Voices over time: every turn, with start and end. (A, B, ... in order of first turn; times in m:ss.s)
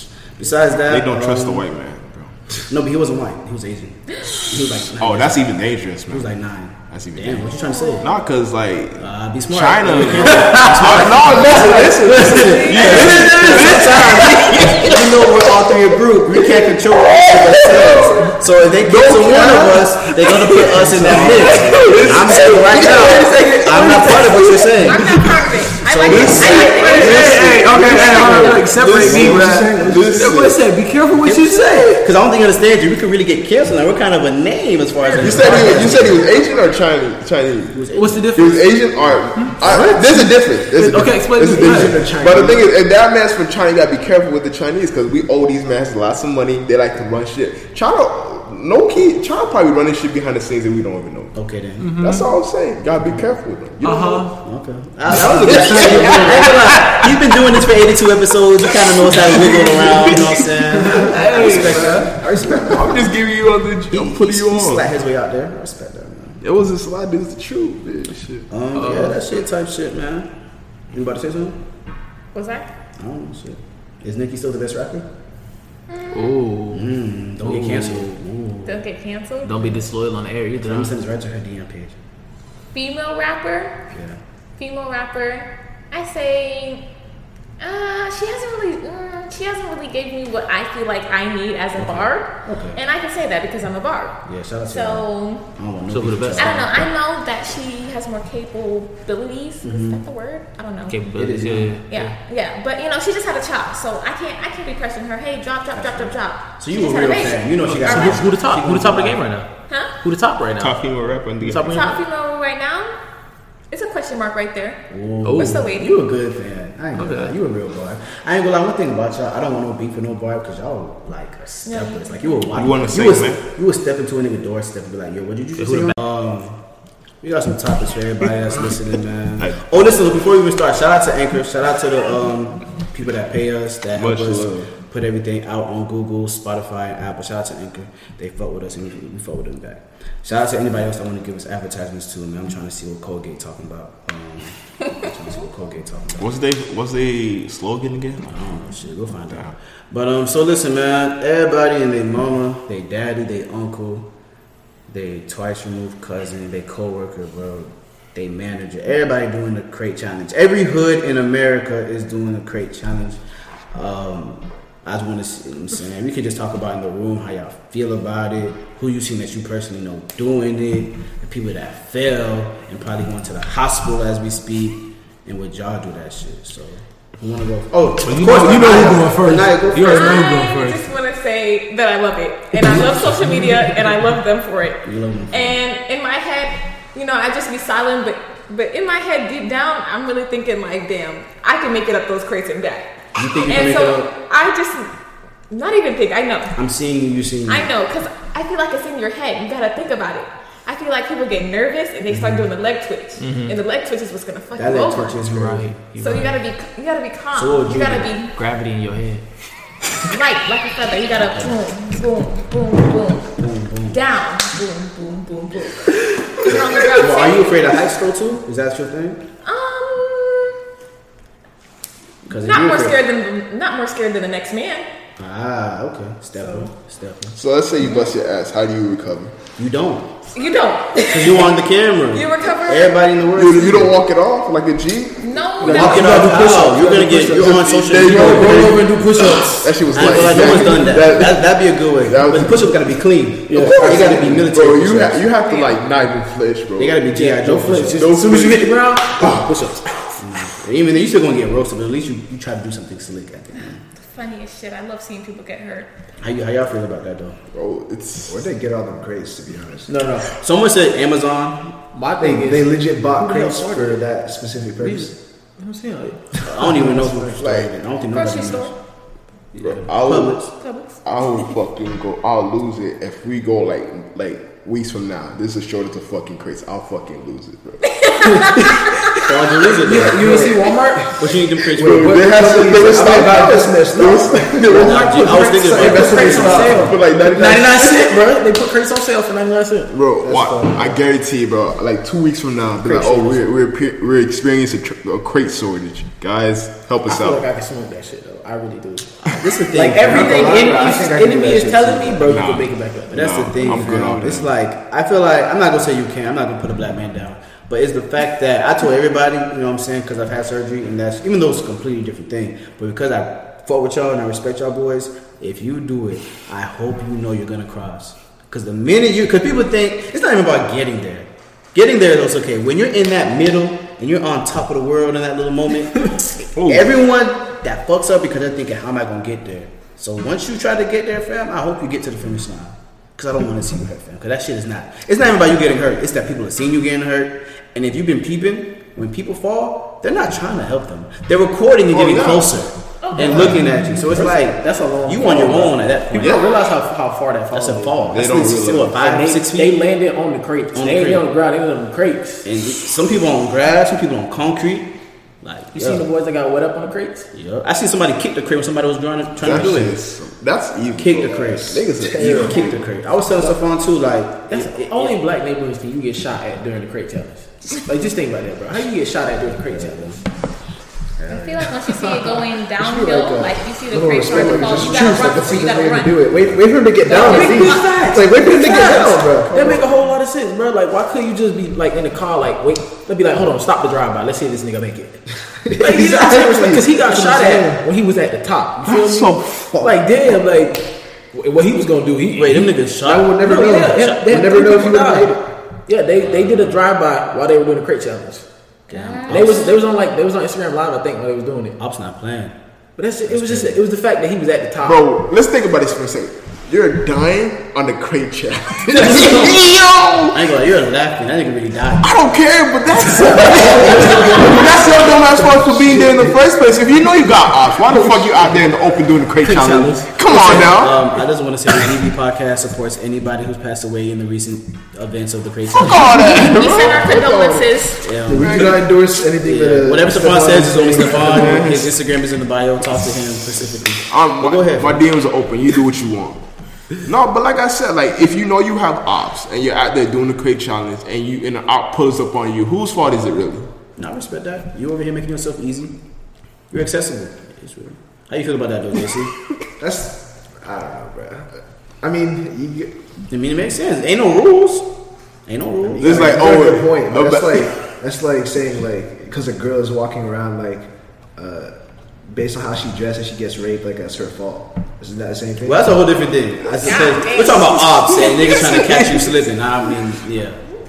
0:00.4-0:01.6 A
0:00.9-0:02.6 B
0:02.7-0:05.5 A
0:04.4-0:06.3 B
0:06.1-0:08.1 A
0:06.9-0:15.0 B
0:07.4-0:08.1 C
0:09.0-0:25.2 A
0:10.0-0:15.4 D
0:12.4-0:13.7 C
0:16.4-0:16.6 D
0:17.5-0:17.9 D
0:17.8-0:18.1 B
0:17.8-0:18.3 C
0:18.8-0:19.8 B
0:19.2-0:19.9 E
0:19.3-0:24.9 D
0:20.7-0:21.4 E
0:21.0-0:24.3 B
0:24.7-0:27.4 C
0:25.8-0:27.4 A
0:26.0-0:30.6 B
0:26.4-0:32.0 D
0:27.2-0:30.5 E
0:31.1-0:36.7 A
0:35.0-0:36.2 C
0:35.2-0:37.8 B
0:37.7-0:38.3 A
0:37.9-0:38.7 D
0:38.3-0:51.3 B
0:39.4-0:42.0 D
0:39.6-0:40.3 E
0:41.5-0:42.7 E
0:51.3-0:51.9 A
0:51.8-0:52.3 D
0:52.0-0:54.3 B
0:53.8-0:54.3 D
0:54.4-1:03.0 A
0:55.3-0:56.5 E
0:55.4-0:57.0 D
0:59.2-1:02.1 D
0:59.2-1:00.4 B
1:00.8-1:03.0 E
1:01.3-1:01.8 B
1:02.6-1:04.8 B
1:03.9-1:06.4 A
1:06.4-1:08.5 B
1:08.5-1:10.3 A
1:08.8-1:09.2 D
1:10.9-1:11.6 A
1:12.3-1:12.7 C
1:13.0-1:15.1 A
1:15.9-1:16.4 C
1:16.1-1:16.9 D
1:16.7-1:18.8 A
1:17.4-1:18.1 D
1:18.6-1:19.6 C
1:19.4-1:20.9 D
1:20.6-1:22.0 A
1:22.7-1:23.8 C
1:23.9-1:24.2 A
1:24.6-1:26.8 C
1:27.6-1:35.4 C
1:31.7-1:32.8 A
1:34.2-1:36.7 A
1:35.9-1:36.7 D
1:36.4-1:41.0 C
1:39.6-1:40.0 A
1:40.9-1:42.1 D
1:41.1-1:41.8 A
1:41.9-1:48.2 C
1:45.7-1:49.2 A
1:47.6-1:48.1 B
1:47.7-1:50.8 D
1:49.7-1:49.9 C
1:50.6-1:51.9 B
1:51.4-1:52.0 D
1:51.7-1:52.9 C
1:53.7-1:54.8 C
1:54.9-2:06.6 A
1:55.2-1:55.6 D
1:55.4-1:56.0 C
1:57.0-1:57.3 D
2:01.6-2:02.4 C
2:02.5-2:03.4 B
2:05.6-2:06.0 D
2:07.2-2:26.4 A
2:09.4-2:09.9 B
2:14.0-2:14.7 B
2:26.2-2:28.3 B
2:28.2-2:34.1 A
2:34.9-2:43.2 A
2:43.7-3:00.3 A
2:58.0-3:00.9 D
2:59.9-3:14.9 C
3:02.6-3:03.6 D
3:04.8-3:05.6 A
3:13.2-3:14.1 A
3:15.5-3:16.5 C
3:16.6-3:17.7 A
3:17.5-3:25.2 C
3:22.1-3:22.4 A
3:23.2-3:23.6 D
3:24.6-3:25.8 A
3:25.2-3:26.4 D
3:25.9-3:28.3 C
3:27.3-3:28.1 A
3:28.3-3:29.2 D
3:30.1-3:33.3 C
3:31.1-3:31.5 A
3:33.4-3:34.0 A
3:33.9-3:37.7 C
3:36.8-3:39.2 A
3:39.4-3:40.6 C
3:42.2-3:43.0 A
3:42.4-3:44.8 C
3:45.2-3:47.4 A
3:47.4-3:49.4 B
3:47.8-3:48.1 C
3:49.6-3:50.1 A
3:50.3-3:51.6 C
3:51.1-3:53.9 A
3:52.1-3:53.0 C
3:53.3-3:56.2 B
3:55.2-3:56.3 C
3:55.6-4:01.1 D
3:55.6-4:05.3 A
3:57.3-4:01.5 B
4:02.0-4:02.8 B
4:03.5-4:04.4 D
4:03.5-4:07.0 B
4:05.4-4:05.8 C
4:06.8-4:08.0 A
4:07.1-4:10.2 D
4:07.9-4:09.4 B
4:10.2-4:13.8 A
4:14.0-4:15.9 C
4:16.2-4:17.4 A
4:17.5-4:18.5 B
4:18.2-4:19.9 E
4:19.9-4:20.3 D
4:20.4-4:21.8 A
4:21.9-4:24.0 D
4:22.2-4:25.1 E
4:24.8-4:27.0 D
4:26.4-4:28.7 A
4:26.8-4:27.1 E
4:27.2-4:27.7 B
4:28.1-4:28.7 C
4:29.5-4:30.4 A
4:29.6-4:30.5 B
4:30.5-4:31.0 C
4:31.0-4:38.6 B
4:37.8-4:39.2 C
4:39.2-4:40.5 A
4:39.8-4:41.1 D
4:40.2-4:40.5 E
4:41.1-4:42.2 A
4:41.8-4:46.9 E
4:41.8-4:45.5 B
4:44.7-4:46.9 A
4:45.7-4:49.9 D
4:46.3-4:48.2 B
4:49.9-4:57.4 B
4:50.2-4:51.0 E
4:52.8-4:53.4 D
4:57.0-5:03.8 D
4:59.2-5:00.9 A
5:00.0-5:02.4 E
5:02.2-5:04.5 B
5:03.1-5:46.4 A
5:26.5-5:26.9 B
5:41.9-5:42.5 B
5:43.0-5:43.6 C
5:43.2-5:43.6 E
5:44.1-5:48.0 D
5:44.2-5:44.4 E
5:45.1-5:45.5 E
5:46.2-5:46.5 B
5:47.5-5:49.8 A
5:48.1-5:49.0 B
5:49.0-5:52.4 D
5:50.7-5:51.2 A
5:52.4-5:54.9 A
5:55.4-5:56.0 A
5:55.7-5:57.3 D
5:57.3-6:00.0 A
5:59.4-6:02.7 B
6:01.0-6:05.2 A
6:02.0-6:02.7 E
6:04.5-6:10.2 D
6:09.7-6:10.2 A
6:11.2-6:11.7 A
6:11.3-6:16.2 C
6:11.8-6:19.8 E
6:14.6-6:15.0 D
6:17.0-6:19.4 C
6:17.1-6:38.4 D
6:25.6-6:27.8 E
6:28.8-6:30.0 B
6:32.3-6:33.3 A
6:33.0-6:35.4 E
6:38.9-6:39.7 A
6:38.9-6:39.8 C
6:39.3-6:41.8 D
6:41.8-6:42.5 A
6:43.0-6:45.0 D
6:43.2-6:43.8 A
6:44.8-6:50.4 B
6:48.9-6:49.6 D
6:49.1-6:49.5 A
6:50.3-6:52.1 A
6:52.0-7:01.0 B
6:53.0-6:55.6 D
6:53.5-6:54.6 A
6:55.4-6:56.4 E
6:59.4-7:00.6 D
7:00.2-7:07.1 A
7:05.7-7:07.3 B
7:06.1-7:08.1 C
7:07.0-7:07.7 E
7:08.0-7:08.8 A
7:08.2-7:11.7 E
7:08.4-7:08.8 B
7:09.4-7:15.0 A
7:11.1-7:11.9 B
7:14.1-7:16.4 B
7:17.0-7:23.7 B
7:24.0-7:25.9 A
7:26.7-7:29.3 A
7:29.8-7:31.5 E
7:32.0-7:32.9 E
7:33.3-7:34.9 A
7:35.5-7:36.4 A
7:35.9-7:41.7 E
7:36.0-7:37.7 B
7:42.2-7:45.8 E
7:45.6-7:50.6 A
7:46.8-7:48.5 C
7:48.2-7:49.2 B